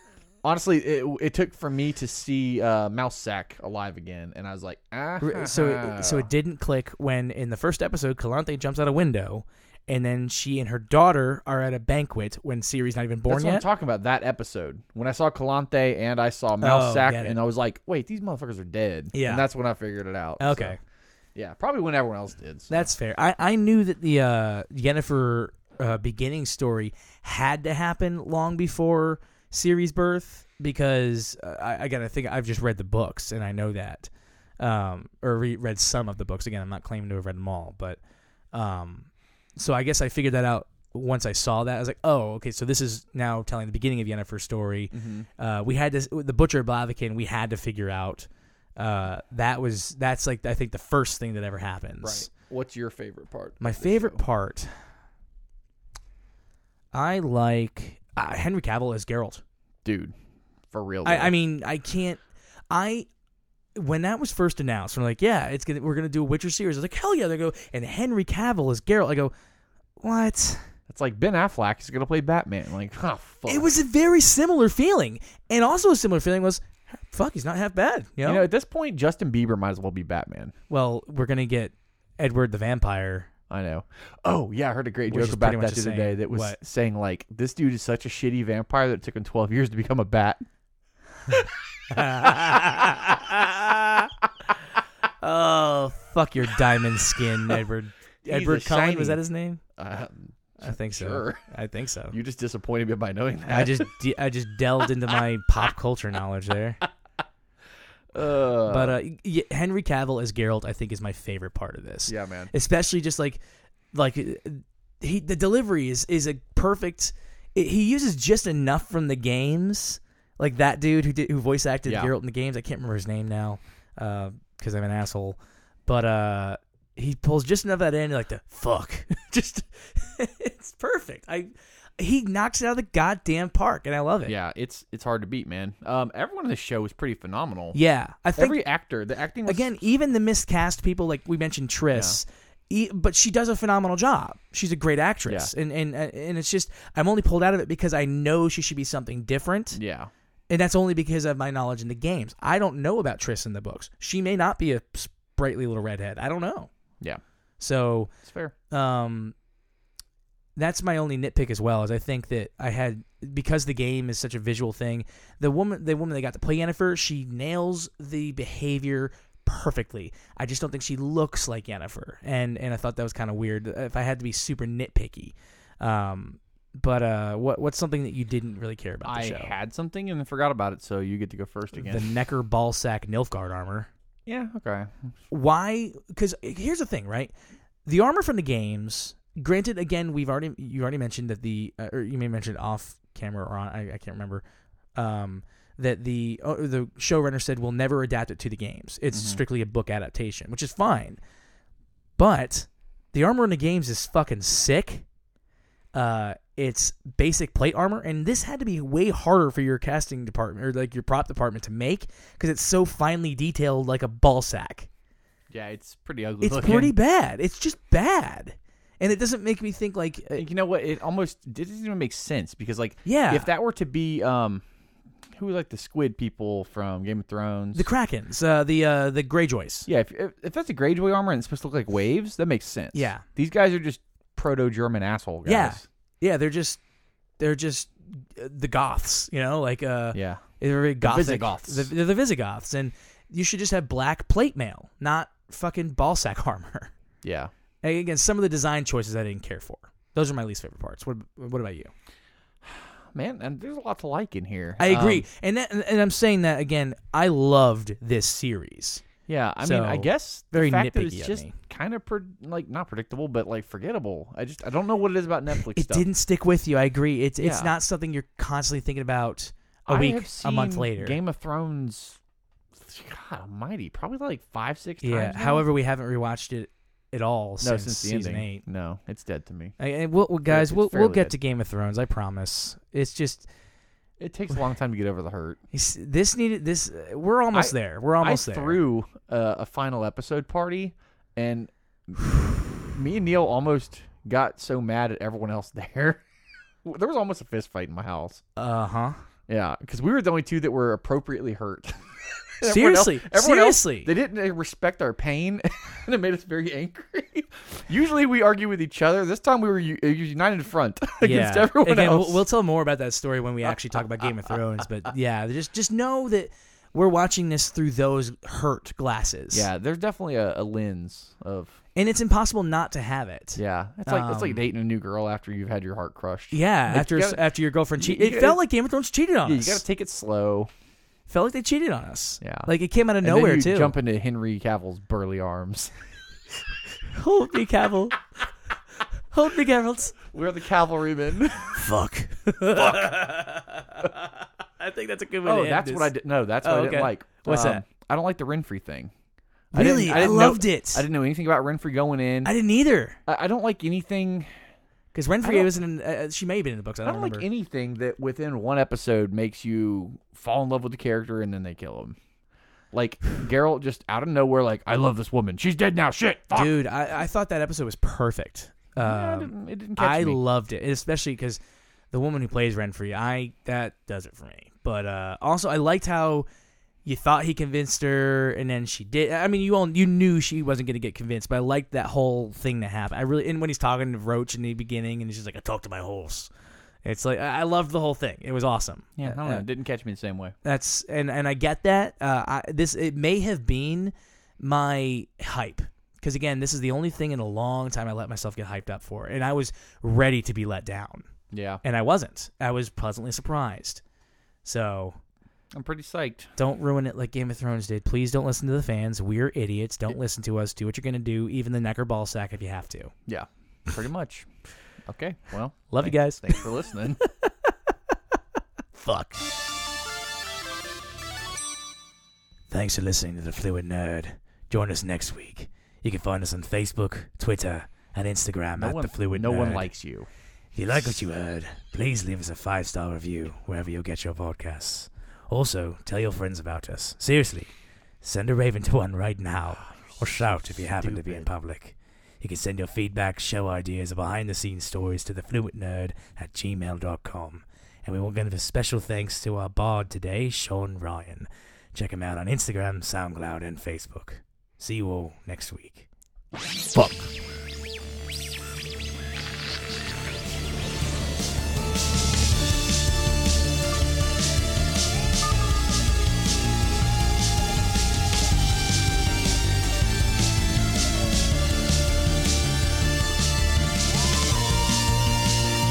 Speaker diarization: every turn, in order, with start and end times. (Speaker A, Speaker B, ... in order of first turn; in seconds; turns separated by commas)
Speaker A: 0.4-6.3, Speaker B: 5.2-13.7, Speaker A: 13.3-20.8, Speaker B: 16.6-17.4, Speaker B: 19.1-19.4, Speaker B: 20.4-20.8, Speaker A: 21.3-22.8, Speaker B: 22.7-38.0, Speaker B: 38.5-52.3, Speaker A: 44.9-45.3, Speaker A: 52.0-54.2, Speaker B: 53.6-54.7, Speaker B: 56.9-59.4, Speaker A: 59.8-60.1, Speaker A: 60.7-61.3, Speaker B: 61.0-63.1, Speaker B: 63.8-69.3, Speaker B: 70.0-70.7, Speaker A: 70.9-73.7, Speaker B: 73.5-78.5, Speaker A: 78.2-80.5, Speaker B: 80.7-83.3, Speaker A: 83.5-90.4, Speaker B: 85.1-86.6, Speaker B: 91.9-94.1, Speaker A: 92.1-92.5, Speaker B: 95.2-99.6, Speaker A: 98.2-99.2, Speaker A: 99.8-101.4, Speaker B: 100.6-102.1, Speaker A: 102.1-103.9, Speaker B: 103.5-106.8, Speaker A: 108.1-109.0, Speaker B: 108.7-113.4, Speaker A: 112.1-112.5, Speaker B: 113.9-134.3, Speaker A: 121.9-122.1, Speaker A: 134.3-137.8, Speaker B: 137.7-138.6, Speaker A: 138.3-139.7, Speaker B: 139.4-149.8, Speaker A: 141.9-142.2, Speaker A: 145.3-145.5, Speaker A: 149.7-150.1, Speaker B: 150.5-156.7, Speaker B: 157.6-158.1, Speaker A: 158.2-158.5, Speaker B: 158.7-159.3, Speaker B: 160.6-179.5, Speaker A: 179.0-182.1, Speaker B: 181.7-183.9, Speaker A: 184.2-184.9, Speaker B: 185.3-187.3, Speaker B: 187.8-194.4, Speaker B: 194.9-201.2, Speaker A: 199.1-199.4, Speaker B: 202.2-205.1, Speaker B: 205.9-214.9, Speaker A: 215.5-216.9, Speaker B: 216.4-220.4, Speaker A: 220.3-224.6, Speaker B: 223.0-223.5, Speaker A: 225.3-227.8, Speaker B: 227.7-229.9, Speaker A: 229.9-235.8, Speaker B: 232.9-233.2, Speaker B: 235.4-236.8, Speaker B: 237.4-246.9, Speaker A: 240.1-240.4, Speaker A: 241.0-241.9, Speaker A: 247.2-247.5, Speaker B: 247.8-251.9, Speaker A: 252.6-255.2, Speaker B: 254.8-259.1, Speaker A: 259.3-266.1, Speaker B: 259.6-261.5, Speaker B: 265.5-271.2, Speaker A: 267.4-267.7, Speaker A: 269.9-272.2, Speaker A: 272.7-275.6, Speaker B: 275.0-278.6, Speaker A: 277.6-279.7, Speaker B: 279.8-283.5, Speaker A: 280.5-281.3, Speaker A: 284.2-285.6, Speaker B: 285.7-288.8, Speaker A: 287.5-296.2, Speaker A: 296.8-298.4, Speaker B: 298.6-299.2, Speaker A: 299.5-302.0, Speaker A: 302.6-312.4, Speaker B: 302.6-304.1, Speaker B: 311.2-319.7, Speaker A: 319.5-321.8, Speaker B: 321.9-324.6, Speaker A: 323.6-327.4, Speaker B: 326.5-329.8, Speaker A: 328.0-328.6, Speaker A: 329.4-330.7, Speaker B: 331.3-333.9, Speaker A: 332.4-332.7, Speaker A: 333.2-335.9, Speaker B: 337.1-338.2, Speaker B: 339.3-340.2, Speaker A: 340.3-341.8, Speaker B: 341.7-347.8, Speaker A: 342.7-343.1, Speaker A: 345.4-349.1, Speaker B: 349.7-351.1, Speaker A: 349.7-352.5, Speaker B: 352.4-353.2, Speaker A: 353.3-354.5, Speaker B: 355.1-357.5, Speaker A: 355.4-355.8, Speaker A: 357.0-362.2, Speaker A: 362.9-366.7, Speaker B: 366.5-371.6, Speaker A: 369.0-370.4, Speaker B: 372.1-376.5, Speaker B: 377.0-386.5, Speaker B: 387.0-389.6, Speaker A: 389.2-390.5, Speaker B: 390.6-401.3, Speaker A: 401.5-401.8, Speaker B: 401.8-404.0, Speaker B: 404.6-405.2, Speaker A: 405.7-406.5, Speaker B: 406.6-413.1, Speaker A: 413.3-414.4, Speaker A: 415.1-417.2, Speaker B: 415.9-416.6, Speaker B: 418.9-419.4, Speaker B: 422.7-429.9, Speaker A: 428.8-430.3, Speaker B: 430.7-456.1, Speaker A: 439.8-441.5, Speaker B: 456.9-457.3